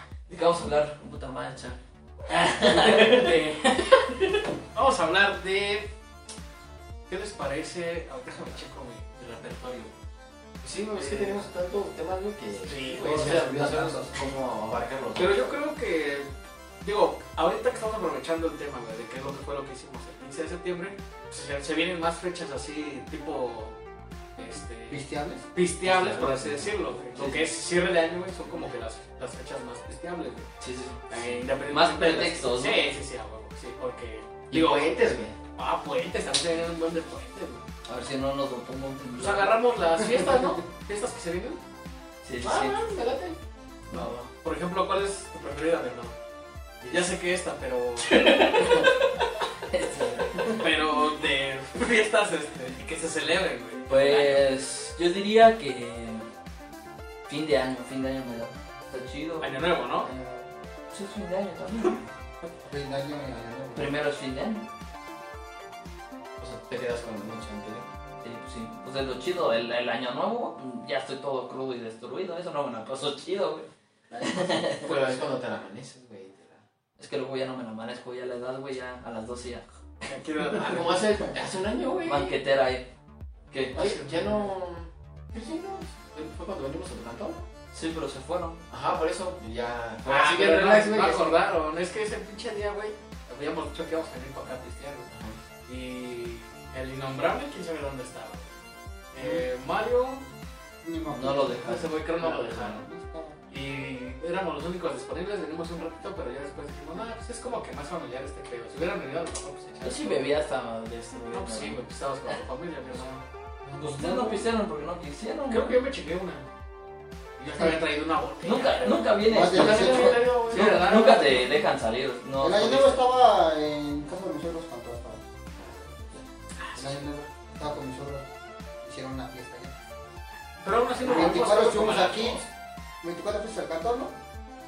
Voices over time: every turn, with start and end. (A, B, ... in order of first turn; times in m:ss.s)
0:00.3-0:01.8 A
0:02.3-0:03.4 A
0:02.6-0:04.1 B
0:04.7-0:05.9 B
0:07.1-0:09.9 B
0:10.6-0:15.6 C
0:11.0-0:11.5 B
0:12.6-0:13.6 B
0:13.0-0:14.2 D
0:15.2-0:16.3 B
0:16.8-0:23.8 B
0:24.4-0:25.0 B
0:24.9-0:25.5 D
0:25.6-0:30.5 B
0:27.2-0:27.4 A
0:30.6-0:32.8 A
0:31.1-0:35.0 B
0:34.5-0:35.4 C
0:35.6-0:37.6 B
0:37.9-0:39.6 A
0:39.2-0:41.6 B
0:42.2-0:42.8 A
0:42.4-0:43.4 C
0:43.9-0:46.1 B
0:46.9-0:48.9 B
0:48.2-0:49.0 A
0:49.7-0:50.6 A
0:50.4-0:54.4 B
0:53.9-0:56.3 A
0:57.3-0:59.6 A
0:59.4-1:00.1 B
1:00.0-1:00.5 D
1:00.9-1:02.0 A
1:02.6-1:04.0 D
1:03.8-1:04.6 A
1:06.4-1:07.9 C
1:08.2-1:13.7 A
1:14.1-1:16.6 C
1:14.2-1:15.0 A
1:17.0-1:19.8 A
1:20.0-1:21.0 B
1:20.4-1:22.4 C
1:22.0-1:22.9 A
1:23.7-1:24.5 B
1:23.7-1:27.4 C
1:27.7-1:28.6 A
1:28.7-1:31.4 C
1:30.1-1:35.1 B
1:35.1-1:35.4 C
1:35.7-1:38.5 B
1:39.1-1:40.2 B
1:39.2-1:39.4 D
1:40.8-1:43.4 D
1:41.1-1:42.0 A
1:41.6-1:42.8 B
1:42.2-1:42.8 C
1:43.5-1:50.3 B
1:49.8-1:51.8 A
1:51.3-1:53.8 B
1:53.8-1:55.8 A
1:53.8-1:54.4 D
1:55.5-1:56.5 B
1:57.4-1:59.1 B
1:58.4-2:03.0 A
1:59.2-2:00.3 D
1:59.4-2:00.9 C
2:00.4-2:01.6 B
2:02.4-2:05.2 D
2:05.6-2:06.2 C
2:06.6-2:07.0 B
2:06.8-2:08.3 D
2:08.8-2:09.8 D
2:10.6-2:12.5 B
2:11.0-2:12.4 D
2:13.0-2:14.2 D